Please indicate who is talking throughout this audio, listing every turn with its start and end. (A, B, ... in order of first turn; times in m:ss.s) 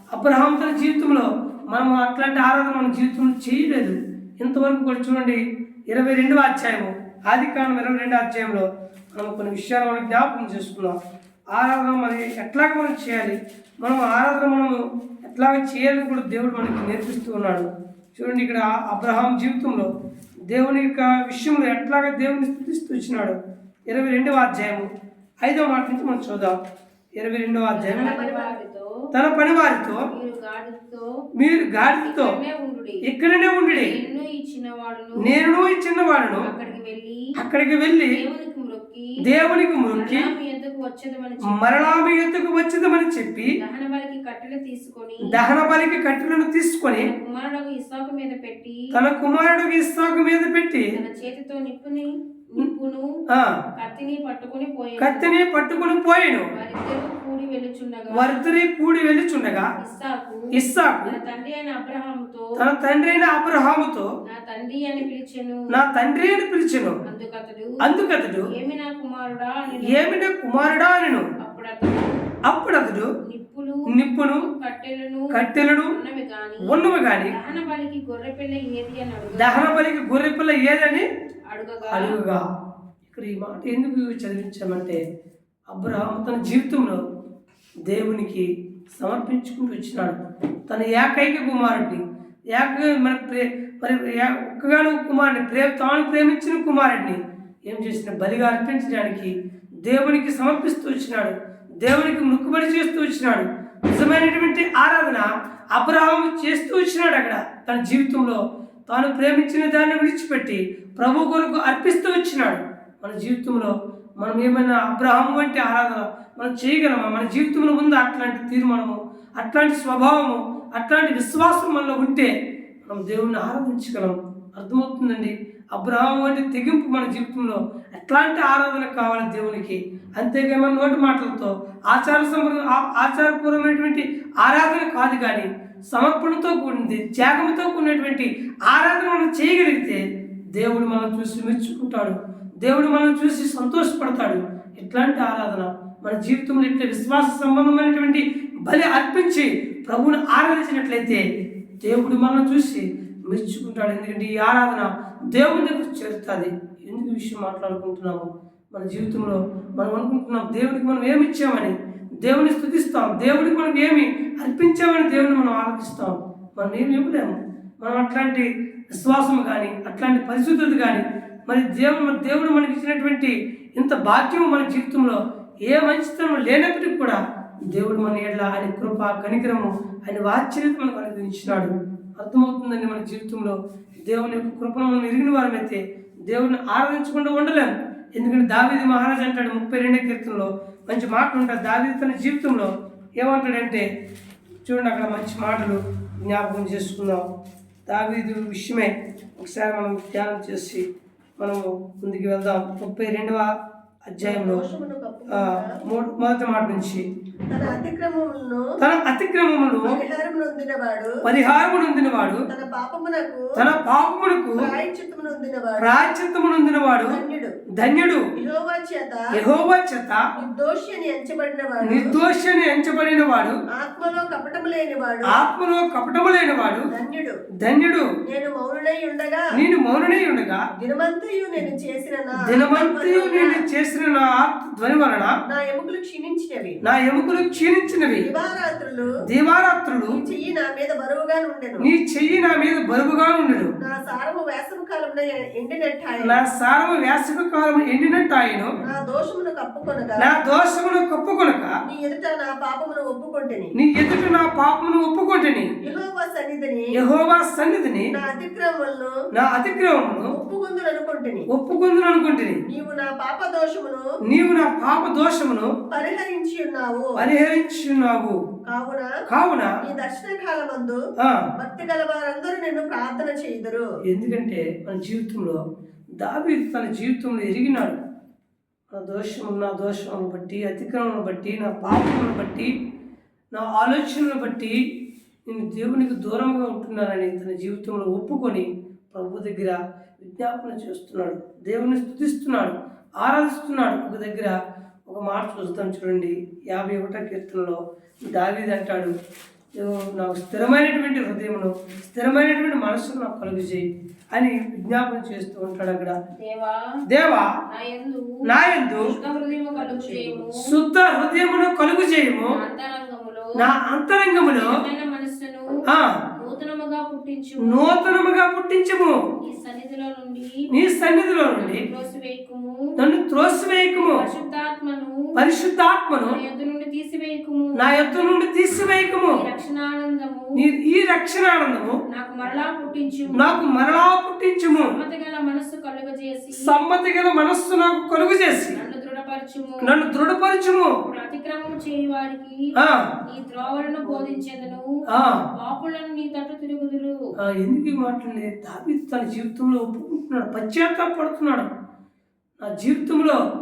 0:00.1-0:11.0 A
0:11.5-0:19.9 A
0:20.5-0:23.4 A
0:23.9-0:24.9 A
0:25.4-0:26.6 A
0:27.2-0:28.2 A
0:27.7-0:29.0 B
0:27.8-0:28.5 C
0:29.1-0:30.1 A
0:29.9-0:31.1 B
0:31.3-0:32.4 A
0:31.8-0:33.0 B
0:33.0-0:34.0 A
0:33.7-0:35.4 B
0:35.2-0:36.5 A
0:36.4-0:37.3 B
0:37.3-0:38.2 A
0:38.1-0:39.2 B
0:39.2-0:40.3 A
0:39.9-0:42.0 B
0:41.5-0:43.6 A
0:43.6-0:45.3 B
0:45.2-0:47.1 A
0:46.9-0:48.9 B
0:48.9-0:50.9 A
0:50.9-0:53.1 B
0:53.3-0:53.6 A
0:53.8-0:55.3 B
0:55.0-0:56.5 A
0:56.5-0:58.4 B
0:58.1-0:59.7 A
0:59.8-1:00.5 B
1:00.5-1:01.2 A
1:01.0-1:02.6 B
1:02.6-1:04.1 A
1:04.2-1:05.7 B
1:05.7-1:07.0 A
1:07.0-1:07.9 B
1:07.8-1:08.5 A
1:08.4-1:10.2 B
1:09.8-1:11.3 A
1:11.4-1:12.2 B
1:12.4-1:13.1 A
1:13.2-1:19.7 B
1:13.9-1:14.5 A
1:15.3-1:15.9 A
1:16.6-1:17.3 A
1:19.4-1:21.1 A
1:21.5-1:22.2 B
1:21.9-1:22.4 A
1:23.1-1:25.0 A
1:25.7-1:27.0 A
1:27.8-2:02.3 A
2:02.8-2:20.0 A
2:20.5-2:31.2 A
2:31.8-2:57.2 A
2:57.7-3:13.8 A
3:14.6-3:17.2 A
3:17.9-3:20.8 A
3:21.4-3:23.5 A
3:24.1-3:24.6 A
3:24.2-3:25.8 C
3:25.3-3:27.0 A
3:27.5-3:28.7 C
3:28.8-3:30.0 A
3:29.8-3:31.2 C
3:31.2-3:32.4 A
3:32.5-3:33.6 C
3:33.5-3:34.7 A
3:34.6-3:36.0 C
3:35.8-3:37.2 A
3:37.1-3:37.5 C
3:37.7-3:38.3 A
3:38.4-3:39.3 C
3:39.3-3:40.2 A
3:40.4-3:42.2 C
3:41.8-3:43.6 A
3:43.7-3:45.4 C
3:45.2-3:46.9 A
3:46.9-3:47.4 C
3:47.6-3:48.1 A
3:48.2-3:49.5 C
3:49.5-3:50.6 A
3:50.8-3:53.6 C
3:52.4-3:55.3 A
3:55.5-3:56.8 C
3:56.8-3:58.3 A
3:58.2-3:59.1 C
3:59.3-4:00.2 A
4:00.1-4:01.9 C
4:01.8-4:03.7 A
4:03.8-4:06.4 C
4:06.2-4:08.7 A
4:08.8-4:10.3 C
4:10.2-4:11.7 A
4:11.9-4:13.7 C
4:13.7-4:15.7 A
4:15.8-4:17.0 C
4:16.9-4:18.1 A
4:18.1-4:19.2 C
4:19.3-4:20.3 A
4:20.3-4:21.5 C
4:21.5-4:22.6 A
4:22.6-4:24.0 C
4:24.2-4:25.7 A
4:25.9-4:27.2 C
4:27.2-4:28.4 A
4:28.7-4:29.1 C
4:29.3-4:29.8 A
4:29.8-4:31.0 C
4:31.2-4:31.5 A
4:31.6-4:33.8 C
4:34.1-4:35.6 A
4:36.2-4:38.0 A
4:38.9-4:42.7 A
4:43.5-4:44.8 A
4:45.5-4:59.1 A
4:59.8-5:06.2 A
5:06.4-5:07.0 B
5:07.1-5:07.5 A
5:07.7-5:08.4 B
5:08.4-5:09.1 A
5:09.0-5:10.6 B
5:09.7-5:10.4 C
5:10.6-5:12.6 A
5:12.5-5:13.6 B
5:13.5-5:14.8 A
5:14.4-5:18.0 B
5:15.8-5:16.2 A
5:17.6-5:19.2 A
5:19.4-5:20.7 B
5:20.7-5:21.8 A
5:21.5-5:22.9 B
5:23.0-5:24.3 A
5:23.9-5:25.3 B
5:25.3-5:26.4 A
5:26.2-5:28.4 B
5:27.8-5:29.4 A
5:29.2-5:30.6 B
5:30.6-5:32.0 A
5:32.1-5:33.6 B
5:33.3-5:35.0 A
5:34.7-5:36.7 B
5:36.5-5:38.8 A
5:38.7-5:39.8 B
5:39.8-5:41.0 A
5:41.0-5:47.1 B
5:42.7-5:43.2 A
5:45.1-5:45.5 A
5:47.4-5:51.7 A
5:52.6-5:53.4 A